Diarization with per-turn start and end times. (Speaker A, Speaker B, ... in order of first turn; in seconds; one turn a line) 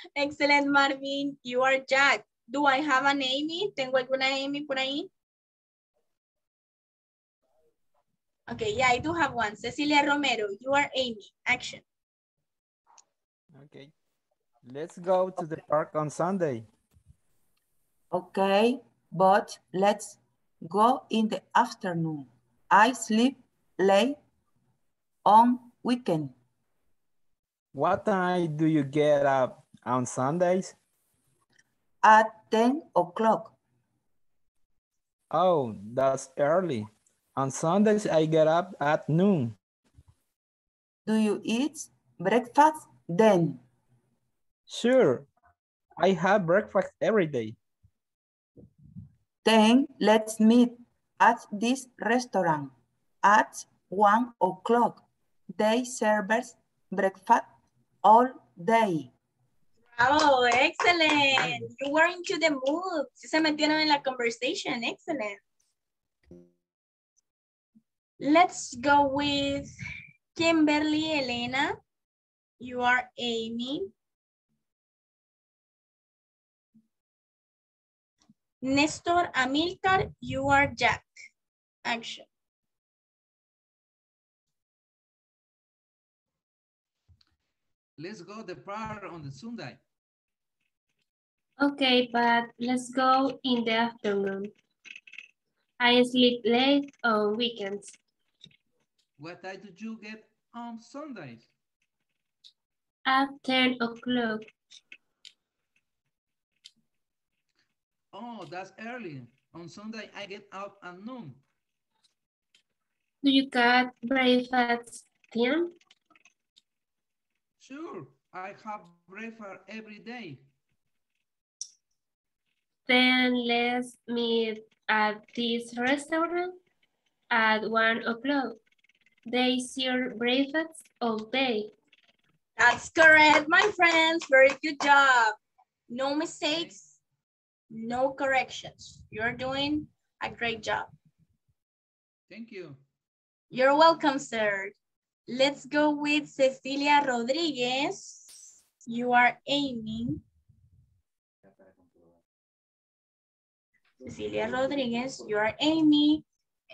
Speaker A: 0.1-5.1
Speaker A: 8.5-11.8
Speaker B: 13.6-13.9
Speaker B: 14.6-16.6
Speaker C: 18.1-24.2
Speaker C: 25.2-26.3
Speaker B: 27.7-30.8
Speaker C: 32.0-33.5
Speaker B: 35.3-39.5
Speaker C: 41.0-43.6
Speaker B: 44.7-45.3
Speaker B: 46.0-47.6
Speaker C: 49.4-55.0
Speaker C: 55.5-57.5
Speaker C: 58.0-59.1
Speaker A: 60.0-65.4
Speaker A: 68.2-69.7
Speaker A: 70.3-71.8
Speaker A: 72.6-73.9
Speaker A: 78.6-81.1
Speaker A: 81.8-82.3
Speaker D: 88.0-89.8
Speaker E: 91.6-94.5
Speaker E: 95.8-98.0
Speaker D: 99.2-101.5
Speaker E: 103.1-104.5
Speaker D: 108.1-111.4
Speaker E: 113.2-115.7
Speaker D: 117.6-120.5
Speaker E: 122.9-126.6
Speaker E: 127.3-128.6
Speaker E: 129.2-131.7
Speaker A: 132.6-135.3
Speaker A: 135.9-136.9
Speaker A: 137.7-140.9
Speaker D: 142.3-142.8
Speaker A: 143.5-144.7
Speaker A: 145.3-148.3
Speaker A: 148.8-150.2
Speaker A: 154.1-156.2